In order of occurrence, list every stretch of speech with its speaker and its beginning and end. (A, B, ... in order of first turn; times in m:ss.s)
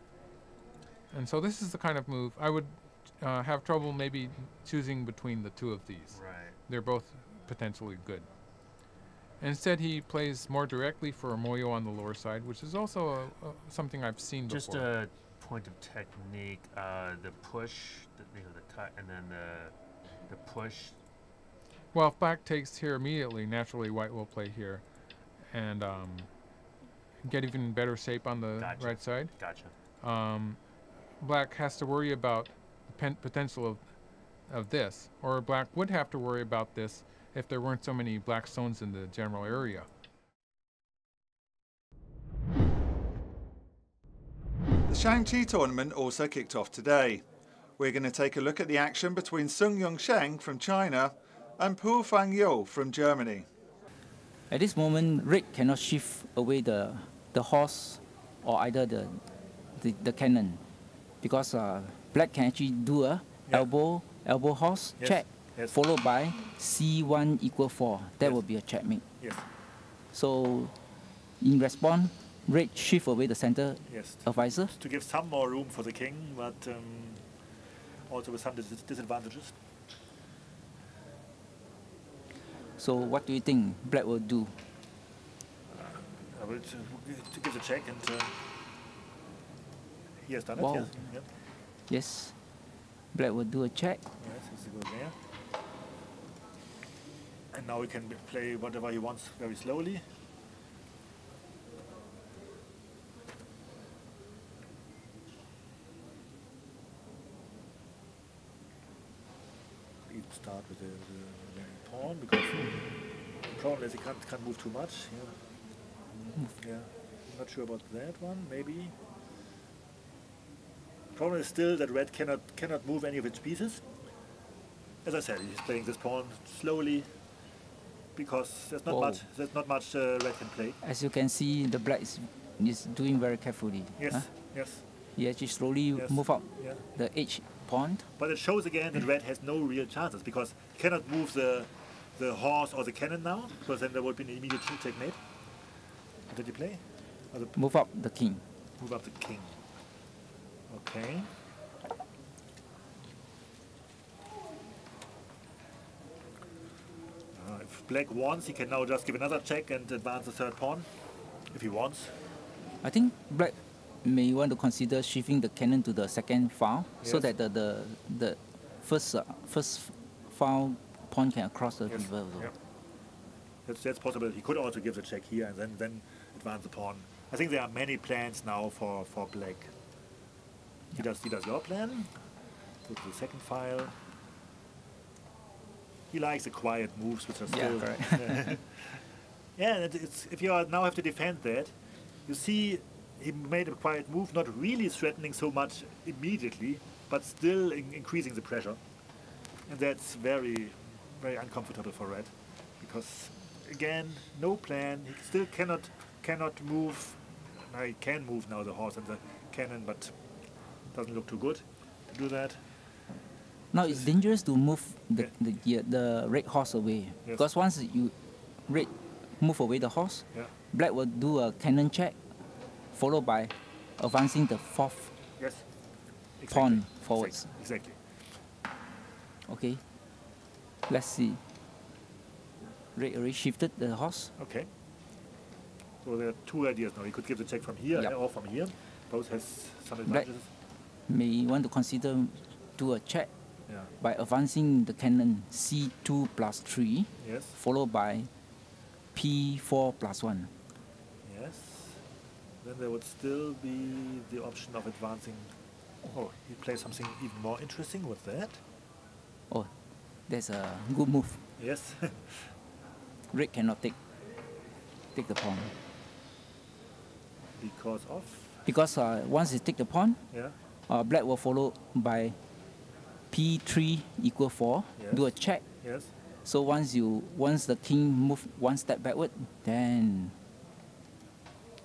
0:01.1-0:08.3 A
0:06.1-0:06.6 B
0:09.4-0:14.9 A
0:14.5-0:19.7 B
0:20.3-0:20.9 B
0:21.9-0:24.8 A
0:25.5-0:26.3 A
0:27.2-0:29.4 A
0:28.6-0:29.7 B
0:30.0-0:30.6 A
0:31.2-0:33.9 A
0:34.5-0:39.9 A
0:44.9-0:47.2 C
0:47.8-0:53.5 C
0:54.5-0:59.2 D
0:59.8-1:00.6 D
1:01.2-1:09.1 D
1:05.0-1:05.8 E
1:08.2-1:08.5 E
1:09.2-1:09.4 E
1:10.1-1:10.7 D
1:11.4-1:14.8 D
1:13.8-1:17.3 E
1:18.1-1:19.6 E
1:22.8-1:24.5 D
1:25.7-1:28.4 E
1:30.3-1:31.3 E
1:30.6-1:31.2 D
1:31.9-1:32.3 D
1:33.1-1:34.0 D
1:34.2-1:35.2 E
1:37.5-1:40.0 E
1:50.1-1:52.8 E
1:53.5-1:55.4 E
1:56.6-1:59.0 E
2:01.2-2:03.8 E
2:05.0-2:07.1 E
2:08.2-2:10.8 E
2:08.9-2:09.2 D
2:10.8-2:14.6 D
2:14.0-2:14.8 E
2:15.2-2:18.1 D
2:15.9-2:16.9 E
2:18.2-2:25.2 E
2:26.3-2:27.8 E
2:27.6-2:28.4 D
2:28.8-2:29.6 E
2:30.7-2:31.3 E
2:37.3-2:40.9 E
2:41.5-2:42.1 E
2:42.8-2:52.5 D
2:47.0-2:47.3 E
2:51.9-2:52.5 E
2:53.6-2:59.7 E
3:01.0-3:02.2 E
3:02.8-3:03.9 E
3:06.1-3:09.0 E
3:07.5-3:08.6 D
3:09.6-3:11.7 E
3:12.3-3:18.8 E
3:19.7-3:32.9 E
3:33.7-3:38.1 D
3:33.8-3:34.2 E
3:38.7-3:42.2 D
3:42.9-3:45.1 D
3:45.4-3:45.7 E
3:46.4-3:48.0 E
3:46.5-3:47.5 D
3:49.5-3:49.8 D
3:50.9-3:51.4 D
3:53.0-3:54.3 D
3:54.4-3:54.7 E
3:56.0-4:00.5 E
4:01.1-4:03.3 D
4:04.0-4:08.3 D
4:07.2-4:07.6 E
4:09.2-4:10.5 D
4:11.2-4:12.0 E
4:12.6-4:15.5 E
4:16.1-4:18.6 E
4:20.3-4:21.4 D
4:21.6-4:22.5 E
4:23.3-4:24.0 D
4:25.2-4:25.7 D
4:27.6-4:28.6 E
4:28.6-4:30.2 D
4:30.9-4:32.4 D
4:33.3-4:35.7 D
4:35.0-4:36.1 E
4:36.4-4:40.3 D